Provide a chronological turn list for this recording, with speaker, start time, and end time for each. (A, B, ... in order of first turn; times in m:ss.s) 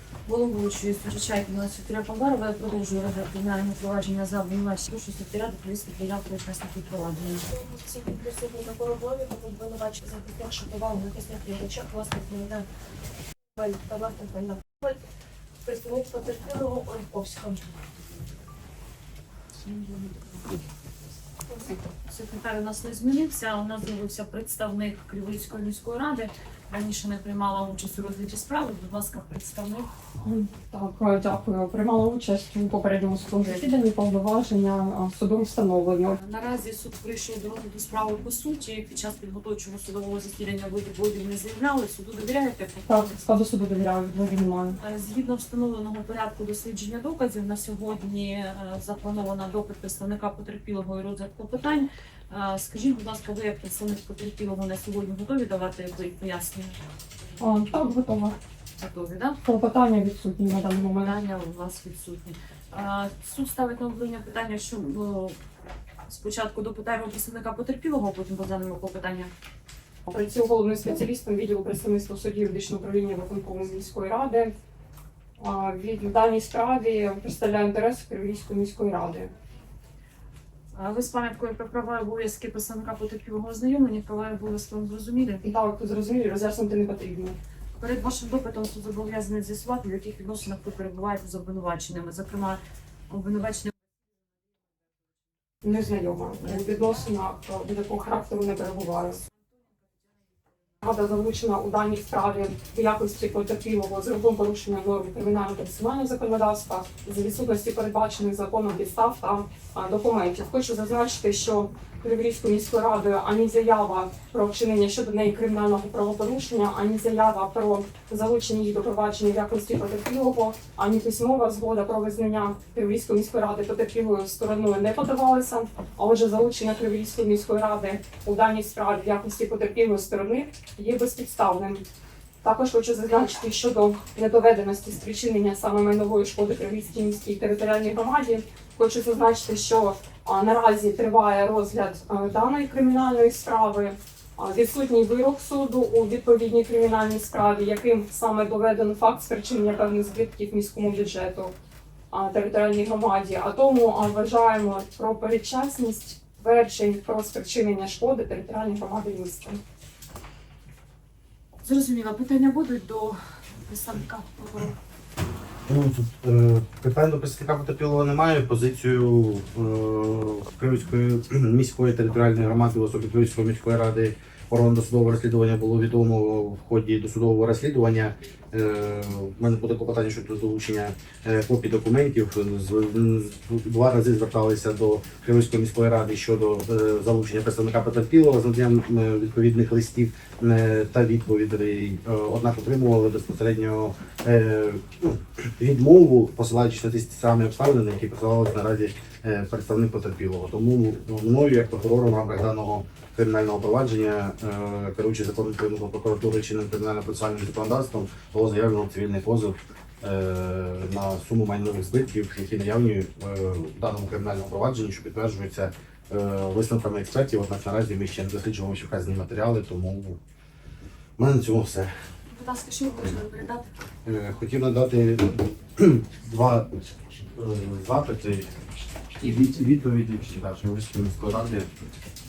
0:00.3-0:07.5 A
0:07.5-0:12.7 B
0:13.6-0:15.0 B
0:15.6-0:17.7 B
0:19.6-0:20.4 A
0:22.1-0:29.9 A
0:30.2-0:36.2 C
0:36.2-0:42.9 A
0:42.9-0:44.8 C
0:44.8-0:56.8 A
0:57.4-0:58.4 C
0:58.8-0:59.4 A
0:59.4-1:01.1 C
1:01.0-1:05.4 A
1:06.1-1:09.3 A
1:10.1-1:14.5 C
1:15.4-1:19.3 C
1:20.8-1:25.4 A
1:25.4-1:27.4 C
1:27.8-1:33.7 A
1:35.6-1:39.2 C
1:40.8-2:11.9 C
2:12.4-2:31.5 C
2:32.1-2:39.6 C
2:41.6-2:44.8 A
2:45.7-3:40.2 D
3:41.2-3:41.9 D
3:42.3-3:43.7 A
3:44.0-3:46.7 D
3:47.4-3:48.5 D
3:49.2-3:51.7 D